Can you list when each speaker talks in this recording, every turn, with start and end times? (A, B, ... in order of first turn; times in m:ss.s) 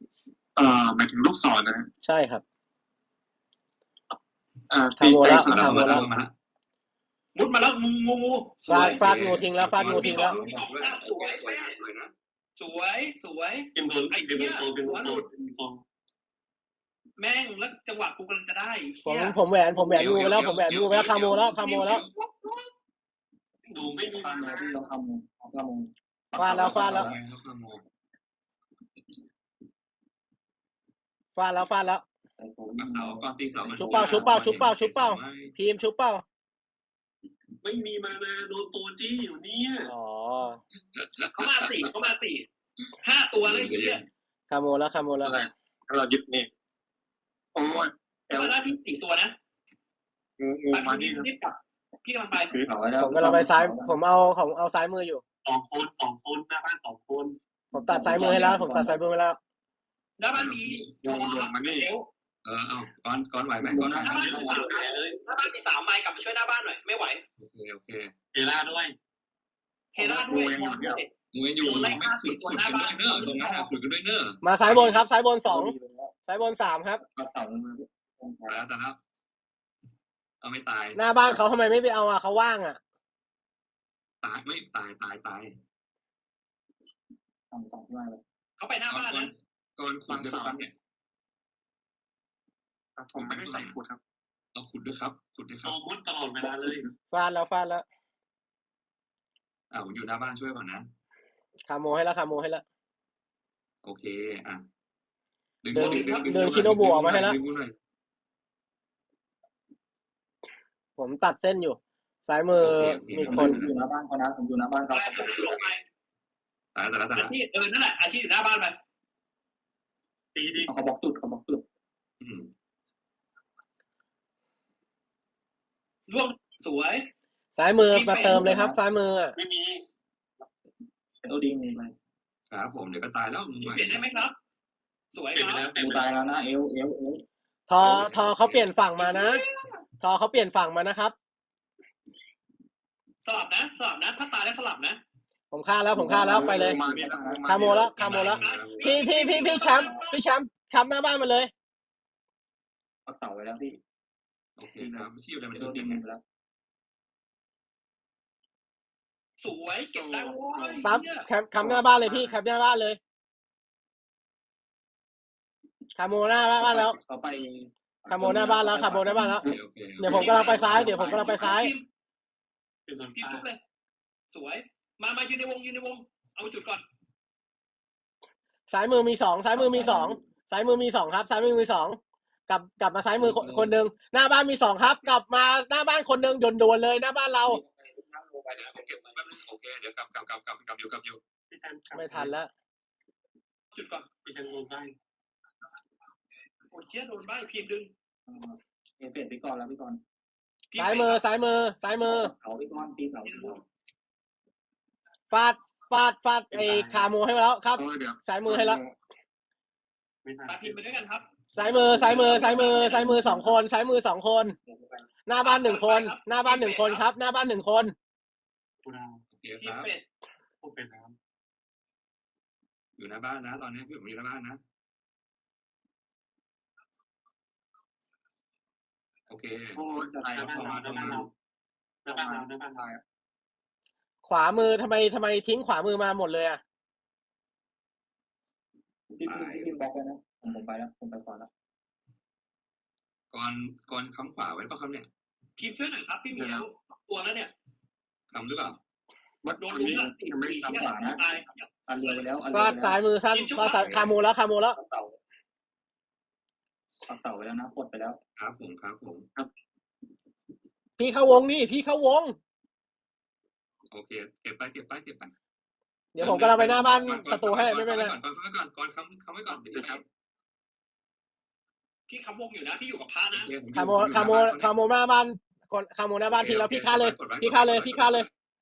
0:00.6-0:01.9 A
0:02.0-0:02.4 B
0:04.7-0:06.0 A
0:05.0-0:06.1 B
0:05.3-0:06.3 C
0:07.3-0:09.1 D
0:08.7-0:10.4 B
0:08.7-0:12.1 C
0:09.8-0:11.8 D
0:12.6-0:15.3 D
0:13.7-0:15.8 E
0:17.2-0:19.4 D
0:19.0-0:22.0 B
0:19.8-0:22.1 C
0:21.6-0:22.7 D
0:23.7-0:24.8 E
0:24.1-0:27.2 F
0:26.4-0:27.1 B
0:26.4-0:27.8 C
0:31.4-0:32.0 B
0:32.4-0:34.5 F
0:32.8-0:35.6 C
0:33.8-0:36.2 B
0:37.6-0:39.9 E
0:39.9-0:40.6 B
0:40.9-0:41.9 C
0:41.3-0:42.5 D
0:43.0-0:44.0 D
0:43.4-0:44.0 C
0:44.5-0:45.4 B
0:45.2-0:46.5 A
0:47.5-0:48.6 A
0:48.3-0:49.3 D
0:50.4-0:51.3 A
0:50.7-0:52.5 D
0:52.5-0:54.0 F
0:53.0-0:55.2 B
0:55.4-0:57.4 E
0:57.7-0:59.0 F
0:57.7-0:59.4 B
1:00.2-1:02.1 D
1:00.3-1:00.9 C
1:01.0-1:01.9 A
1:02.4-1:04.2 C
1:03.6-1:04.9 F
1:04.0-1:05.2 E
1:04.0-1:07.2 D
1:07.4-1:08.1 C
1:08.3-1:08.9 E
1:09.9-1:13.7 D
1:10.0-1:11.0 A
1:11.3-1:15.0 C
1:14.4-1:15.7 B
1:15.4-1:16.1 F
1:16.3-1:17.0 B
1:17.0-1:18.6 F
1:18.5-1:19.0 C
1:20.4-1:21.4 C
1:20.9-1:22.8 B
1:24.2-1:25.6 C
1:27.5-1:28.2 F
1:28.6-1:29.3 D
1:28.9-1:30.7 C
1:30.1-1:30.6 A
1:33.0-1:34.0 A
1:33.1-1:33.8 C
1:34.5-1:35.8 C
1:35.6-1:36.8 E
1:36.4-1:36.9 A
1:37.1-1:37.8 B
1:39.7-1:40.9 C
1:41.7-1:42.6 B
1:43.8-1:44.6 C
1:45.6-1:47.7 C
1:45.7-1:47.4 B
1:45.8-1:46.6 D
1:51.0-1:53.6 B
1:52.6-1:53.8 C
1:52.8-1:55.6 F
1:54.9-1:55.8 D
1:56.7-1:57.3 C
1:57.1-1:58.8 D
2:00.3-2:00.7 E
2:00.6-2:01.6 F
2:02.2-2:02.5 C
2:06.1-2:07.1 D
2:07.6-2:09.3 B
2:07.9-2:08.4 D
2:08.1-2:08.8 F
2:09.3-2:09.8 E
2:11.2-2:11.9 F
2:12.5-2:14.0 C
2:13.6-2:14.4 D
2:15.1-2:15.7 D
2:15.3-2:16.1 E
2:15.8-2:17.2 F
2:17.7-2:19.4 B
2:17.8-2:18.7 C
2:19.0-2:19.8 D
2:20.0-2:21.1 B
2:23.2-2:25.0 D
2:25.5-2:26.8 B
2:25.9-2:27.8 F
2:26.1-2:28.0 A
2:27.5-2:31.5 B
2:27.7-2:29.7 C
2:28.2-2:30.2 D
2:33.0-2:33.8 F
2:34.6-2:36.0 C
2:34.8-2:36.2 F
2:39.4-2:41.3 D
2:39.9-2:40.8 A
2:40.8-2:43.0 B
2:41.6-2:42.4 F
2:46.0-2:47.0 B
2:46.6-2:49.4 F
2:48.1-2:49.4 B
2:49.4-2:51.4 C
2:50.0-2:51.7 B
2:50.0-2:51.8 D
2:50.1-2:51.4 A
2:52.8-2:53.4 E
2:53.2-2:53.6 D
2:54.3-2:56.8 D
2:58.7-3:07.6 B
3:03.2-3:03.8 C
3:07.4-3:09.2 F
3:08.6-3:11.2 C
3:11.5-3:12.3 E
3:11.9-3:12.5 B
3:13.7-3:14.1 D
3:14.2-3:14.9 E
3:16.7-3:17.9 D
3:18.2-3:20.0 F
3:20.7-3:21.2 D
3:20.8-3:22.3 B
3:22.0-3:23.6 F
3:23.2-3:23.6 D
3:25.3-3:28.8 B
3:26.5-3:27.1 E
3:27.8-3:29.0 A
3:30.2-3:30.8 E
3:30.5-3:31.2 D
3:31.5-3:34.6 B
3:31.6-3:33.6 F
3:34.6-3:35.1 F
3:35.3-3:37.9 B
3:35.4-3:37.0 D
3:38.8-3:39.2 E
3:39.3-3:39.9 C
3:39.6-3:40.0 D
3:40.6-3:41.1 E
3:43.0-3:44.6 C
3:49.3-3:51.3 C
3:49.7-3:51.2 A
3:50.3-3:51.3 E
3:52.0-3:52.8 E
3:52.1-3:53.0 A
3:54.2-3:56.6 B
3:59.1-4:01.5 F
3:59.2-3:59.7 C
4:03.3-4:05.1 C
4:05.6-4:07.5 D
4:06.4-4:06.7 A
4:08.3-4:08.8 C
4:09.4-4:11.2 A
4:09.6-4:11.7 D
4:10.7-4:11.2 F
4:11.9-4:13.0 F
4:12.5-4:14.8 B
4:13.3-4:13.8 D
4:13.6-4:14.1 C
4:17.0-4:18.2 F
4:18.4-4:19.3 C
4:21.0-4:22.4 B
4:23.9-4:25.3 C
4:26.1-4:28.1 B
4:26.2-4:30.0 C
4:29.7-4:30.0 A
4:32.1-4:33.5 D
4:33.3-4:34.7 C
4:33.7-4:38.2 B
4:36.3-4:38.3 C